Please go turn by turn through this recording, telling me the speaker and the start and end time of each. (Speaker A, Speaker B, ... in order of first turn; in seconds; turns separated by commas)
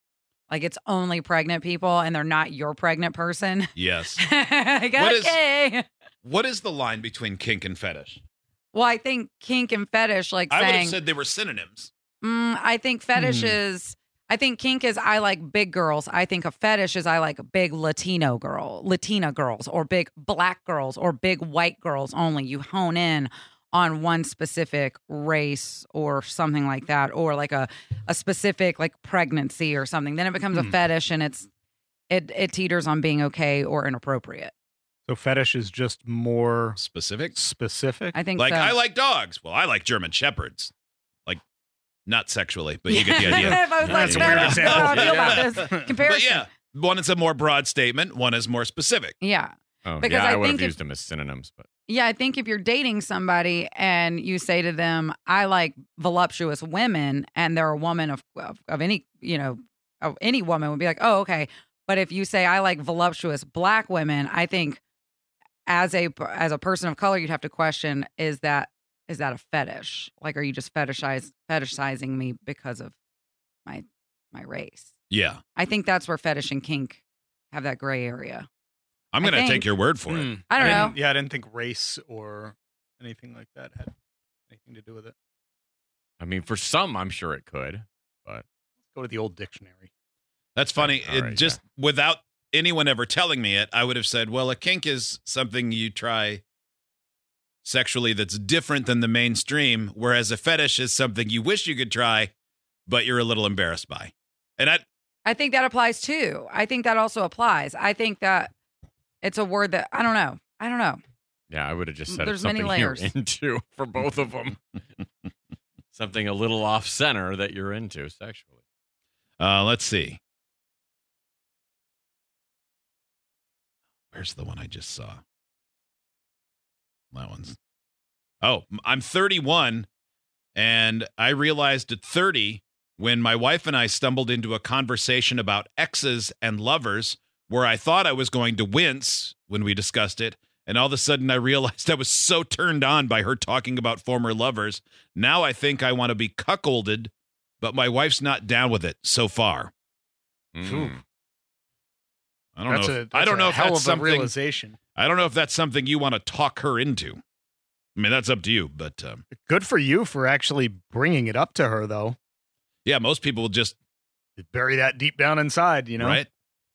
Speaker A: 0.5-5.9, Speaker B: 3.8-4.2, Speaker B: 5.0-5.4, Speaker B: 6.2-8.2, Speaker A: 8.7-11.0, Speaker B: 10.5-11.9, Speaker A: 12.2-31.5, Speaker C: 13.2-13.5, Speaker A: 32.1-34.5, Speaker C: 35.1-36.8, Speaker B: 36.8-37.4, Speaker C: 37.4-38.2, Speaker A: 38.1-38.8, Speaker B: 38.4-40.7, Speaker B: 42.1-49.1, Speaker A: 42.9-46.5, Speaker D: 43.8-45.4, Speaker C: 43.9-45.9, Speaker A: 49.2-50.8, Speaker D: 49.9-51.7, Speaker A: 51.9-64.8, Speaker A: 65.7-72.9, Speaker A: 73.7-74.9, Speaker B: 75.1-75.4, Speaker A: 75.5-78.5, Speaker B: 79.1-80.9, Speaker A: 79.2-79.7, Speaker C: 80.1-83.9, Speaker A: 80.5-81.0, Speaker C: 84.5-85.1, Speaker D: 86.2-88.5, Speaker C: 88.9-89.9, Speaker B: 90.6-96.4, Speaker D: 90.8-91.6, Speaker B: 97.6-102.3, Speaker B: 102.9-104.8, Speaker A: 105.2-108.5, Speaker A: 109.2-111.0, Speaker D: 111.5-114.6, Speaker A: 112.1-113.1, Speaker D: 115.9-118.5, Speaker B: 119.4-120.2, Speaker B: 124.1-125.2, Speaker B: 127.1-127.6, Speaker B: 128.4-129.9, Speaker B: 130.6-149.7, Speaker D: 150.6-151.0, Speaker C: 150.7-150.9, Speaker B: 152.6-154.3, Speaker C: 152.7-154.8, Speaker B: 155.0-157.2, Speaker B: 158.0-159.2, Speaker C: 159.4-162.2, Speaker B: 162.8-163.8, Speaker C: 164.4-166.2, Speaker B: 166.0-166.3